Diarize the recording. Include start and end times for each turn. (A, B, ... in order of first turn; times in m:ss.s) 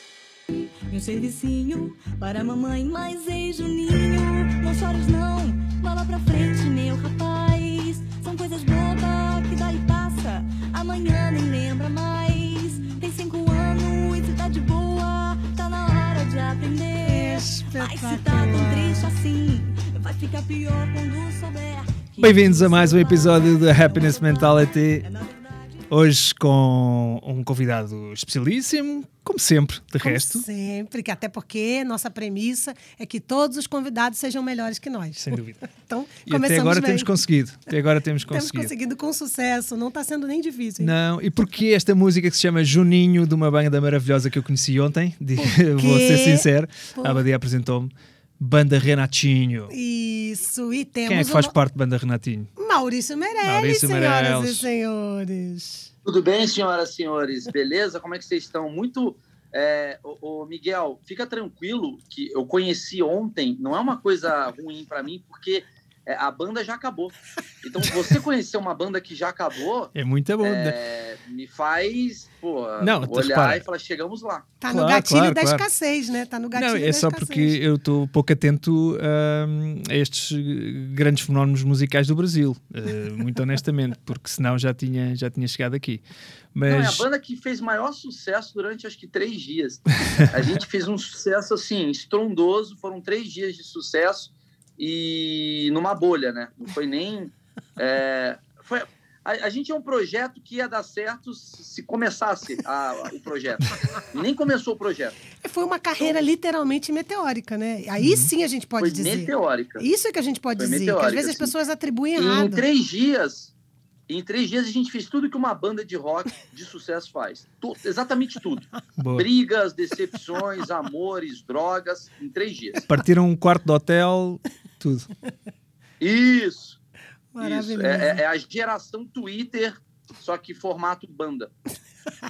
0:00.9-0:25.8 A
0:17.0-0:19.1 B
0:22.2-0:25.1 C
0:25.9-0:30.5 C
0:30.0-0:37.1 B
0:35.2-0:35.6 C
0:36.2-0:38.7 C
0:38.3-0:40.9 B
0:40.8-0:49.7 C
0:45.4-0:47.2 B
0:49.7-0:51.6 B
0:51.0-0:52.5 C
0:52.6-0:55.9 B
0:53.4-0:54.7 C
0:56.0-1:14.5 D
1:09.9-1:10.8 C
1:12.8-1:13.6 C
1:14.6-1:17.6 B
1:14.7-1:15.7 C
1:16.5-1:26.0 C
1:26.5-1:27.0 C
1:26.7-1:45.2 D
1:45.4-1:52.6 B
1:46.0-1:46.2 D
1:48.0-1:48.3 C
1:48.8-1:49.8 D
1:50.6-1:51.5 D
1:52.1-1:53.5 D
1:54.1-2:02.8 D
1:59.0-1:59.3 C
2:02.9-2:05.1 C
2:06.0-2:06.8 D
2:07.3-2:08.2 B
2:07.4-2:11.5 D